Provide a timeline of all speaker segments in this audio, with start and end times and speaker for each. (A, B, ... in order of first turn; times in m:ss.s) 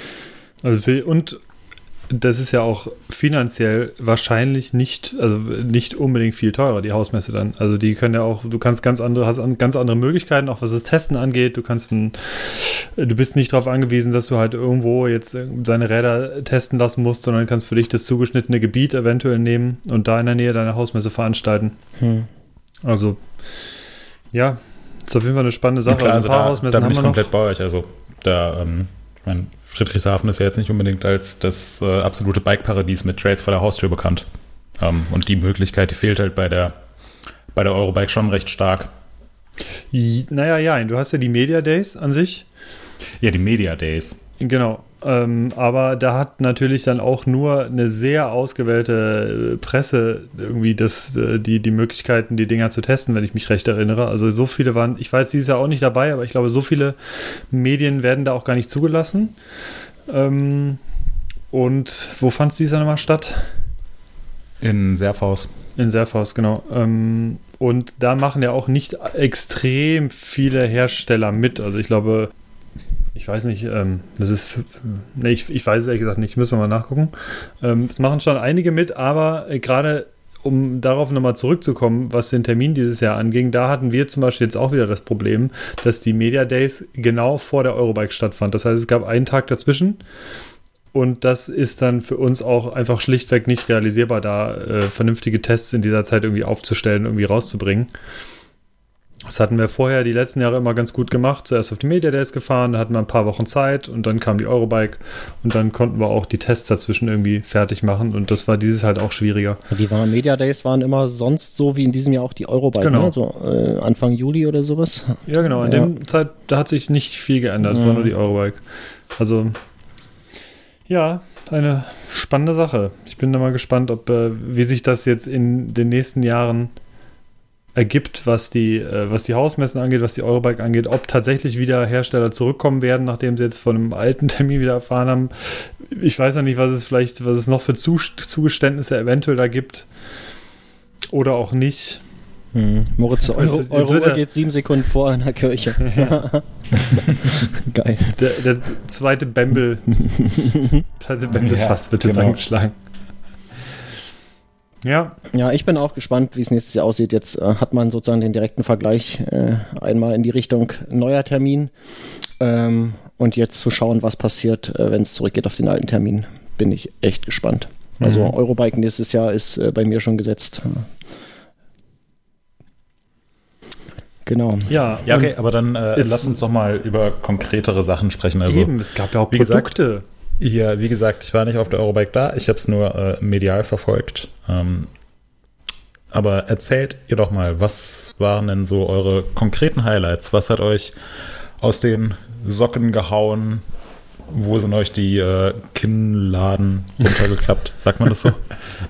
0:00.6-0:01.4 A
0:02.1-0:21.7 A
0:22.0-0:22.3 B
0:22.8-0:23.2 A
0:24.3-0:27.3 A
0:25.9-0:34.3 C
0:34.8-0:36.7 C
0:37.5-0:38.9 C
0:39.9-0:42.4 A
0:43.2-0:44.2 C
0:44.4-0:57.0 A
0:57.5-0:59.3 A
1:00.1-1:00.8 A
1:01.5-1:03.5 A
1:04.6-1:05.5 C
1:05.8-1:12.3 A
1:13.1-1:30.0 A
1:30.9-1:37.9 A
1:39.2-1:49.6 A
1:49.7-1:56.0 B
1:52.8-1:53.1 A
1:55.3-1:58.6 A
1:57.6-1:58.1 B
1:59.1-1:59.6 A
2:00.9-2:06.7 A
2:07.7-2:19.9 A
2:21.1-2:22.0 A
2:22.5-2:28.2 B
2:23.3-2:24.2 A
2:25.8-2:26.2 A
2:28.1-2:30.3 A
2:29.9-2:30.8 B
2:31.0-2:32.7 A
2:31.3-2:32.4 C
2:34.8-2:35.2 A
2:35.3-2:41.7 B
2:42.4-2:50.9 B
2:48.0-2:48.3 A
2:54.2-2:54.8 B
2:54.7-2:55.3 A
2:55.0-2:58.7 C
2:56.0-2:56.3 A
2:58.5-3:00.0 A
2:59.3-2:59.7 C
3:00.4-3:04.9 C
3:06.1-3:10.9 C
3:11.6-3:13.6 C
3:14.3-3:18.4 C